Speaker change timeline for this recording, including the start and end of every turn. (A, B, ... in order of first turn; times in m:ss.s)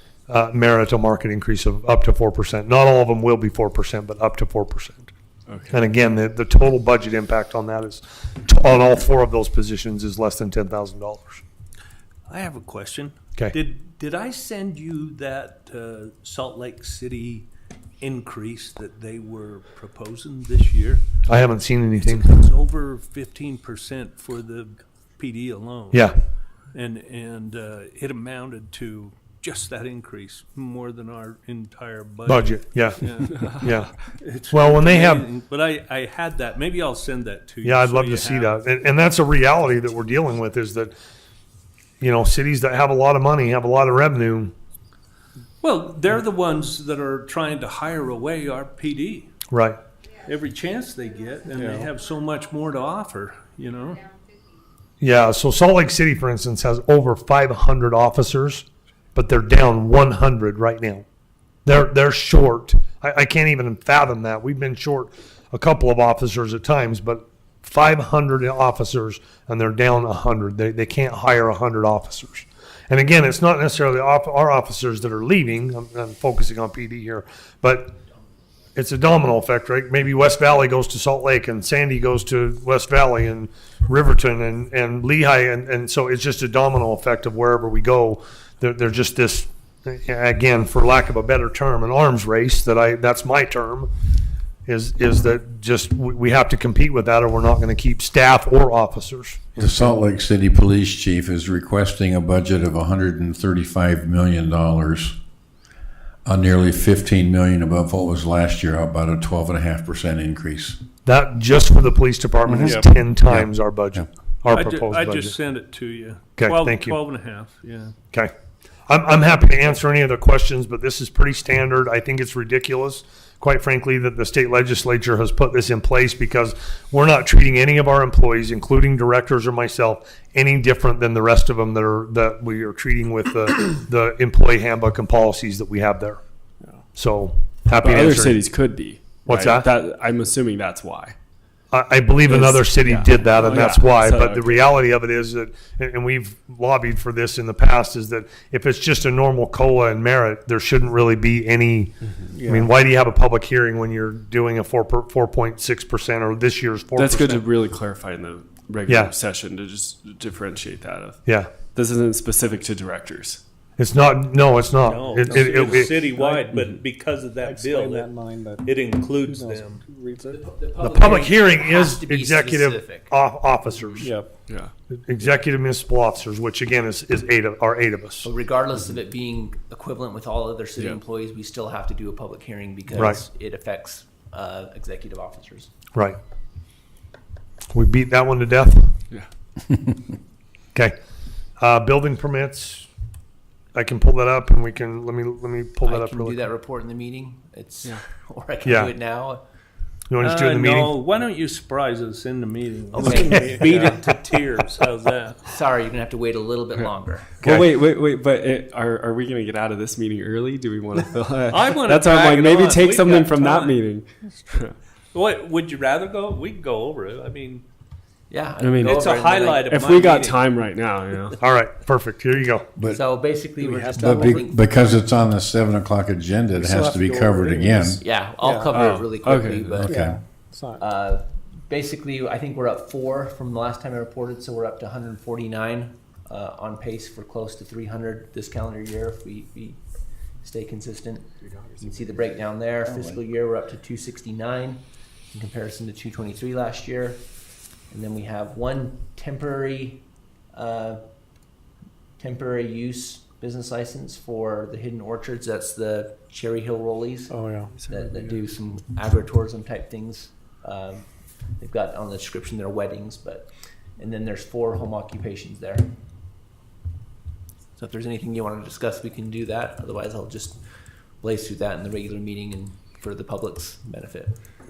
0:00.3-0:05.1 A
0:05.5-0:05.7 B
0:05.7-0:11.4 A
0:12.3-0:17.5 C
0:18.0-0:21.1 C
0:21.3-0:22.3 A
0:22.0-0:26.1 C
0:26.7-0:38.6 C
0:32.3-0:34.0 A
0:34.5-0:35.2 A
0:37.6-0:40.9 A
0:42.0-0:44.5 A
0:45.6-0:49.3 C
0:49.5-0:49.8 A
0:50.2-0:54.1 C
0:51.6-0:51.9 D
0:55.0-1:01.0 A
1:01.6-1:17.9 A
1:18.8-1:33.9 A
1:34.7-1:39.9 A
1:39.6-1:45.2 E
1:46.2-1:50.8 E
1:51.0-1:55.4 A
1:52.5-1:53.4 E
1:54.5-1:57.9 C
1:56.4-1:57.0 A
1:58.9-2:16.2 A
2:16.9-2:18.5 A
2:17.7-2:21.2 B
2:19.2-2:19.7 A
2:21.7-2:37.5 A
2:22.3-2:24.7 B
2:32.4-2:32.7 D
2:37.0-2:41.2 B
2:38.9-2:39.2 A
2:41.2-2:41.5 A
2:41.7-2:43.4 B
2:43.8-2:46.1 A
2:44.8-2:48.1 C
2:46.1-2:46.5 D
2:47.4-2:48.6 D
2:48.6-2:49.8 C
2:49.2-2:50.5 D
2:50.3-2:53.1 F
2:50.8-2:54.1 A
2:54.0-2:54.3 D
2:54.5-2:54.7 B
2:54.9-2:58.3 A
2:58.2-3:05.7 F
3:02.9-3:03.2 A
3:07.7-3:09.0 A
3:11.6-3:12.9 A
3:13.7-3:16.5 A
3:15.8-3:19.4 F
3:18.6-3:18.9 A
3:20.1-3:21.0 A
3:20.2-3:25.4 C
3:22.9-3:24.0 F
3:25.5-3:27.4 F
3:26.8-3:34.8 B
3:27.4-3:27.7 A
3:31.5-3:33.8 C
3:35.1-3:37.6 C
3:38.3-3:39.7 F
3:38.6-3:39.0 B
3:38.8-3:40.5 C
3:39.7-3:41.4 B
3:41.4-3:42.7 A
3:42.9-3:44.7 F
3:43.6-3:44.4 D
3:44.0-3:48.0 E
3:46.6-3:48.7 D
3:48.0-3:50.0 F
3:48.7-3:49.9 B
3:49.8-3:50.2 E
3:49.9-3:50.8 D
3:50.8-3:59.8 F
4:00.4-4:01.3 F
4:01.4-4:02.2 B
4:01.8-4:07.2 F
4:07.9-4:11.0 F
4:12.2-4:25.9 F
4:17.3-4:17.7 D
4:17.8-4:18.2 B
4:27.8-4:30.6 F
4:31.2-4:34.4 F